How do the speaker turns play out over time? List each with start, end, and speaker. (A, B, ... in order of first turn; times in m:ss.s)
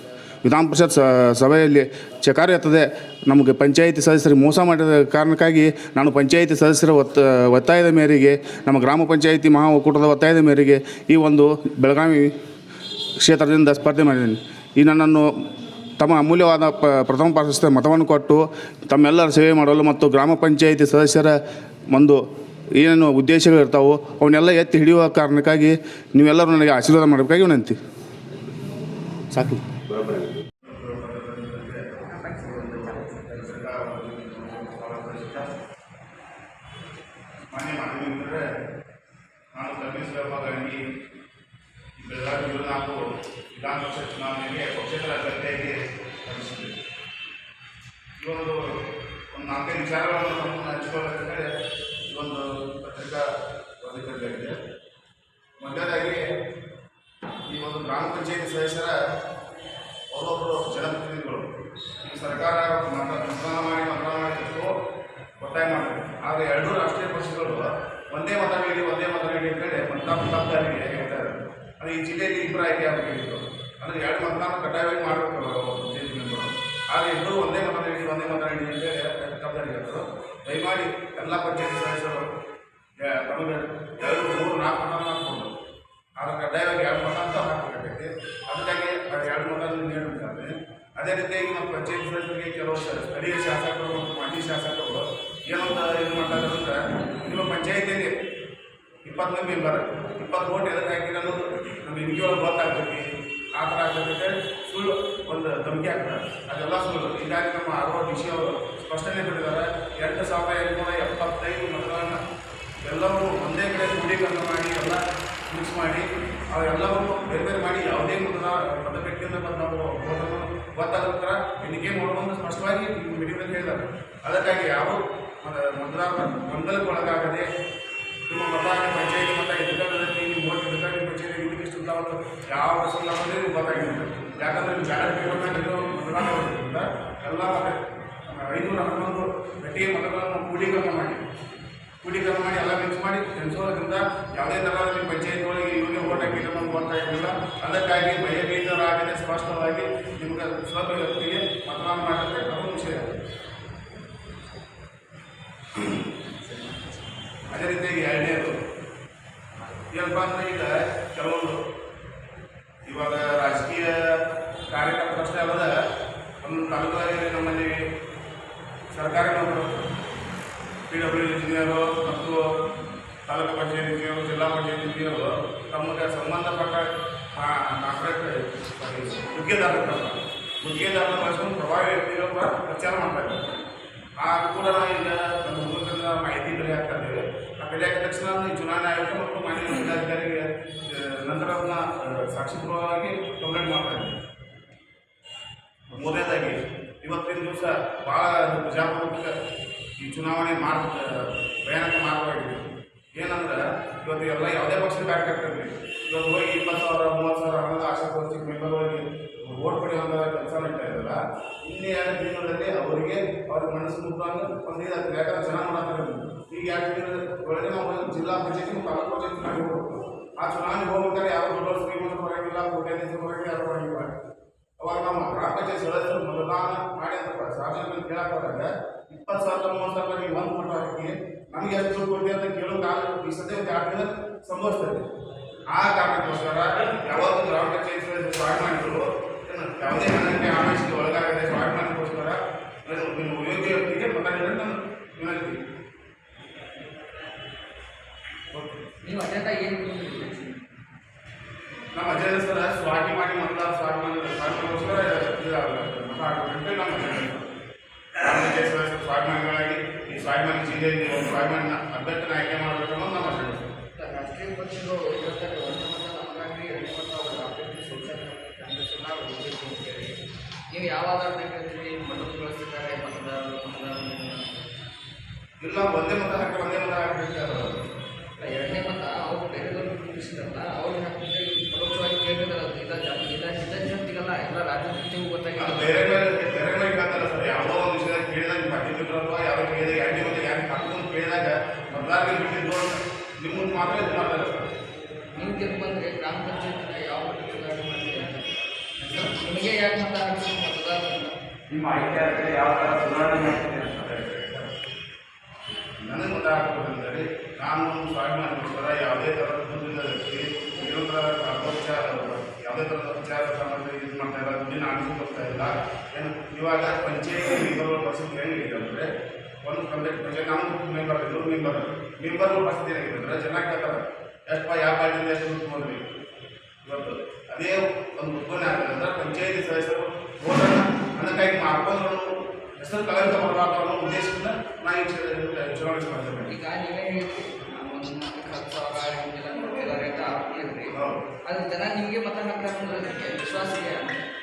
0:00.4-0:12.3 A
0:13.2-0:15.3 A
0:16.0-0:21.3 A
0:21.9-0:22.2 A
0:22.8-0:27.8 A
0:29.4-0:30.4 B
0:30.6-0:35.5 A
0:32.3-0:33.3 C
0:37.5-0:38.4 A
0:39.5-0:40.8 A
0:42.0-0:46.7 A
0:48.2-0:48.8 A
0:49.3-0:51.5 A
0:52.1-0:53.3 A
0:53.8-0:54.5 A
0:55.6-0:56.2 A
0:57.5-0:59.0 A
1:00.1-1:04.7 A
1:05.4-1:22.3 A
1:23.0-1:25.5 A
1:26.2-1:38.1 A
1:39.0-1:52.2 A
1:52.8-2:07.4 A
2:08.3-2:21.2 A
2:22.0-2:33.2 A
2:35.8-2:36.0 A
2:36.5-2:36.9 C
2:37.5-2:38.6 A
2:39.9-2:41.6 A
2:42.8-2:45.7 A
2:46.4-2:47.8 A
2:48.9-2:49.8 A
2:50.9-2:52.4 A
2:53.2-3:03.5 A
3:04.2-3:14.2 A
3:15.9-3:19.3 A
3:20.0-3:44.1 A
3:44.8-3:55.0 A
3:55.7-4:05.6 A
4:08.5-4:08.8 A
4:09.0-4:10.6 C
4:11.9-4:17.5 A
4:18.2-4:23.7 A
4:23.9-4:34.7 C
4:35.6-4:37.8 A
4:38.4-4:46.1 C
4:45.6-4:54.7 A
4:55.3-4:58.4 C
4:59.1-5:01.4 C
5:01.7-5:04.6 B
5:02.9-5:03.3 C
5:06.0-5:19.1 A
5:19.6-5:26.1 A
5:26.8-5:36.5 A
5:36.5-5:44.1 C
5:40.9-5:41.2 A